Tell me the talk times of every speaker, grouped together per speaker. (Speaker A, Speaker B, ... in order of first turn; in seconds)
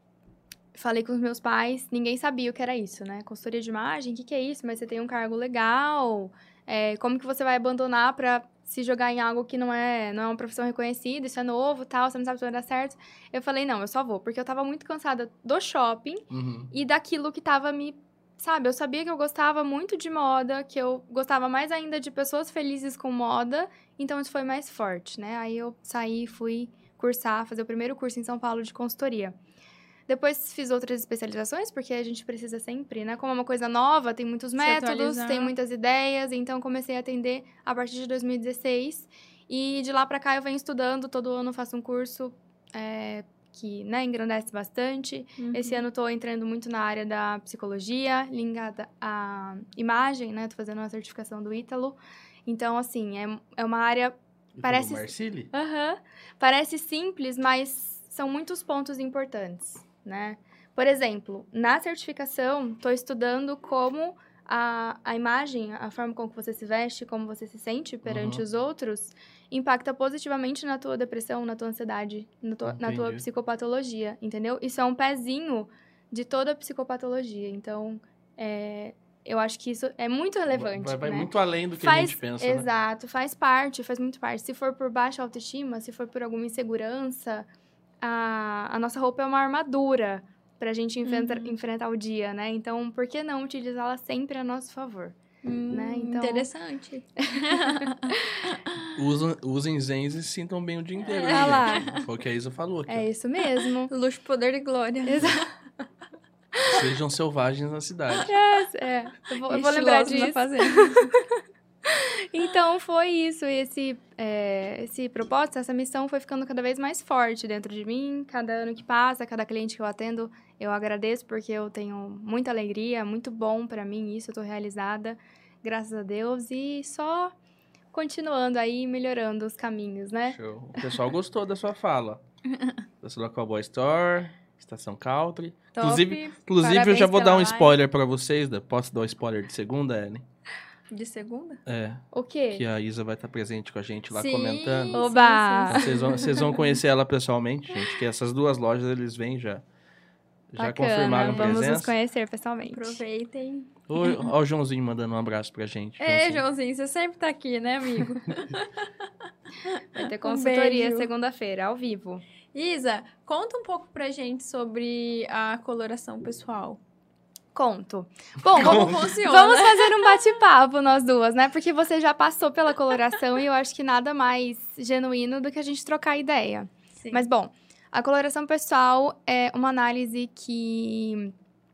Speaker A: 0.8-29.4, 30.1-87.5, 88.0-95.2, 95.7-96.5, 97.2-98.4, 101.3-101.9, 102.9-103.9, 105.0-105.5, 108.2-111.3, 111.9-127.3, 127.9-130.4, 135.8-137.7, 142.1-142.6, 144.9-146.3, 150.6-153.0, 159.9-162.2, 167.5-181.3
Speaker B: 16.3-16.7, 54.5-55.5, 68.0-68.4, 72.6-73.2, 80.5-82.7, 99.0-103.1, 106.7-108.3, 130.3-132.2, 133.0-140.2, 141.7-145.1, 145.7-149.6, 150.5-151.9, 153.9-156.4, 168.6-169.0
Speaker C: 34.6-35.5, 45.4-45.8, 91.0-91.5, 95.4-98.8, 101.0-102.0, 103.9-105.4, 109.5-111.1, 135.8-136.4, 140.9-141.6, 144.1-146.6, 151.1-151.6, 152.7-154.3, 156.0-158.8, 159.7-161.1, 162.5-166.8, 168.5-170.2